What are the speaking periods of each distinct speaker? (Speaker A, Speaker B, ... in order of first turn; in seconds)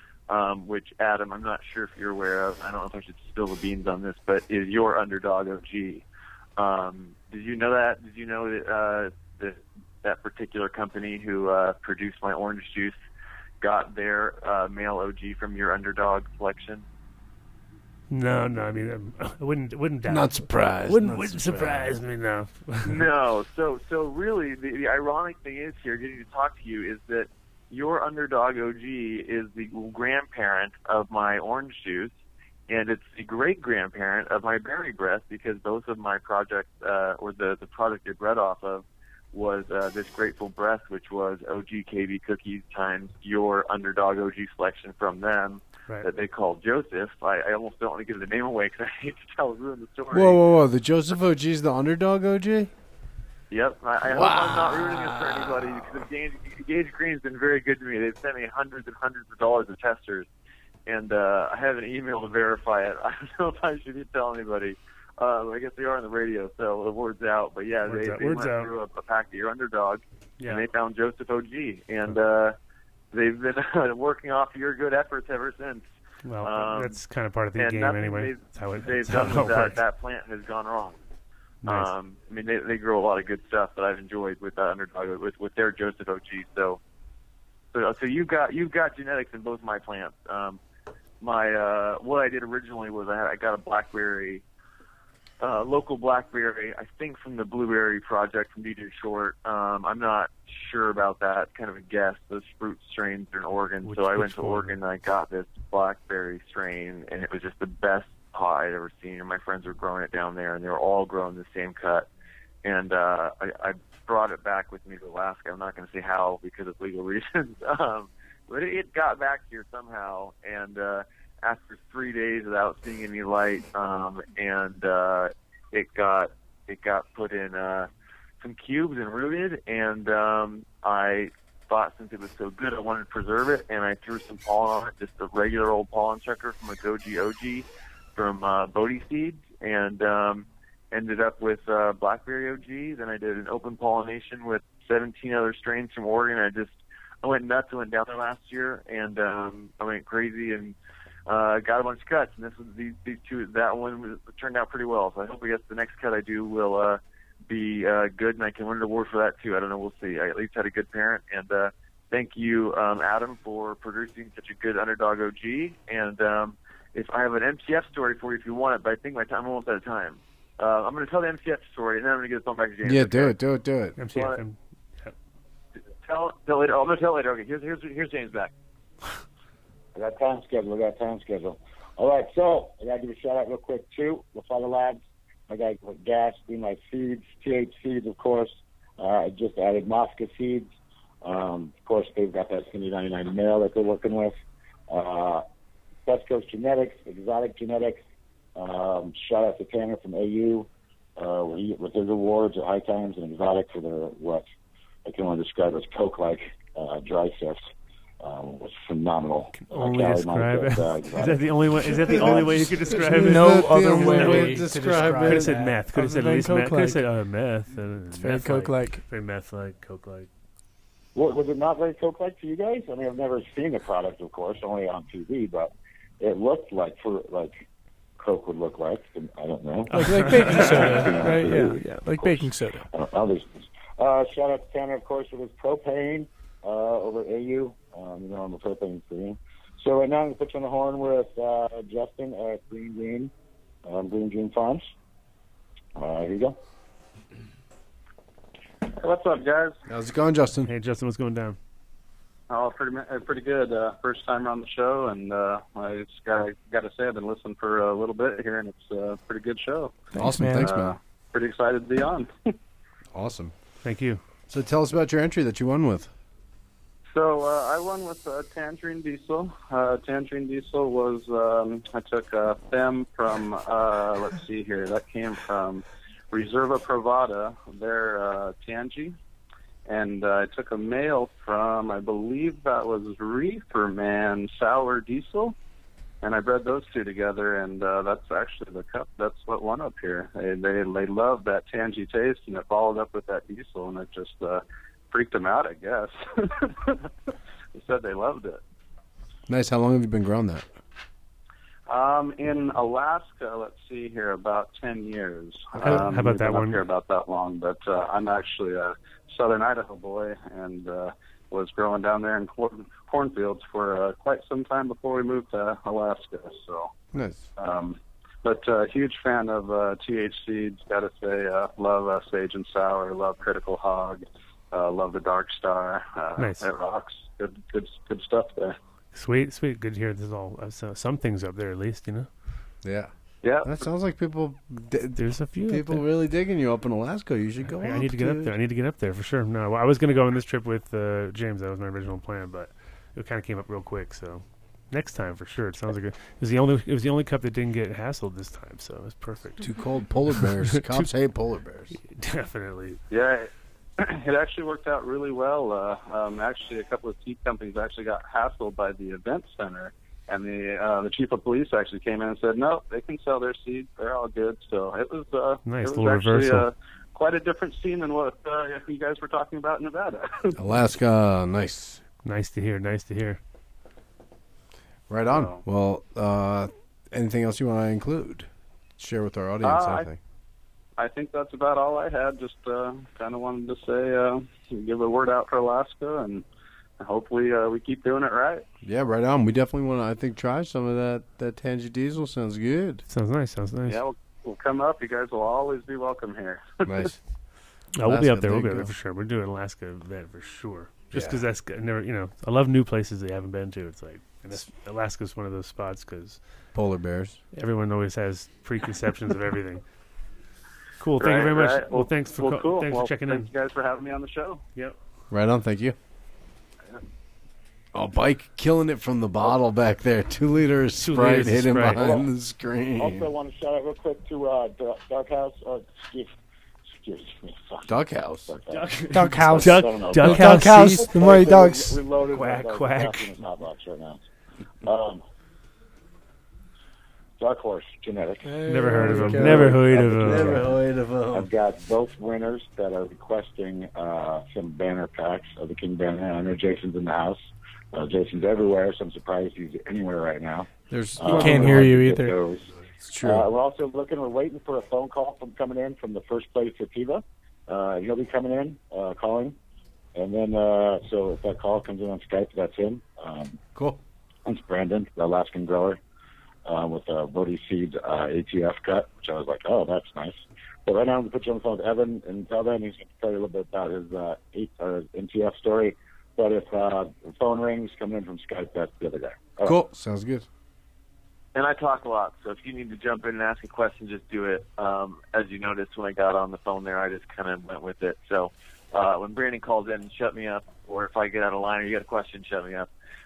Speaker A: 0.3-6.0, 6.6-13.0, 13.6-16.9, 22.8-32.1, 32.7-50.5, 53.5-60.3, 60.9-72.6, 73.1-75.9, 76.4-77.0, 77.5-81.0, 81.6-86.8, 87.7-90.6, 91.2-94.4, 95.4-112.1, 112.6-127.9, 128.4-150.8, 151.3-173.4, 174.1-174.4, 175.8-178.5, 481.5-492.9
Speaker B: 18.1-23.0, 67.8-68.7, 70.4-70.7, 76.2-79.8, 81.6-81.9, 103.8-104.8, 174.0-175.2, 209.5-220.3, 229.9-232.0, 250.7-251.6, 263.8-264.2, 305.8-306.8, 326.4-326.7, 329.1-332.3, 335.2-336.1, 337.6-351.1, 351.9-353.0, 365.6-366.7, 372.2-373.4, 393.1-394.0, 398.0-406.4, 407.5-409.8, 411.0-413.5, 421.0-422.2, 428.7-431.2, 432.3-433.4, 438.7-440.7
Speaker C: 20.1-22.0, 50.1-52.7, 54.1-55.6, 172.9-173.9, 212.3-215.5, 249.9-250.7, 260.2-261.0, 263.1-263.5, 264.5-266.1, 299.5-300.7, 317.1-317.4, 332.8-338.6, 349.6-351.9, 370.6-372.0, 375.1-380.2, 388.8-393.0, 396.8-397.2, 398.0-398.9, 401.1-401.4, 406.7-407.4, 415.3-416.0, 417.9-423.3, 427.9-428.5, 439.2-441.5, 450.9-451.9, 453.0-453.4, 479.6-480.5
Speaker D: 179.9-190.7, 191.2-194.4, 194.9-195.4, 196.1-198.0, 198.6-204.5, 205.1-207.6, 208.2-212.7, 221.2-227.6, 228.2-232.4, 232.9-243.3, 243.8-244.9, 246.0-246.6, 421.9-422.2, 423.0-434.2, 434.8-435.2, 437.4-440.8, 441.3-452.7, 453.2-459.6, 460.1-463.6, 464.5-466.0, 466.6-479.8
Speaker E: 213.2-217.0, 218.1-219.0, 229.9-232.9, 260.2-260.8, 429.1-432.0, 438.4-439.8, 451.3-452.4
Speaker F: 248.9-249.8, 252.5-262.5, 267.1-279.2, 279.9-285.6, 286.2-297.0, 297.7-298.6, 301.9-316.9, 317.6-328.8, 333.4-333.9, 353.1-370.6, 375.3-375.6, 379.6-380.1, 381.0-386.5, 387.0-388.6, 393.9-397.1, 411.2-414.6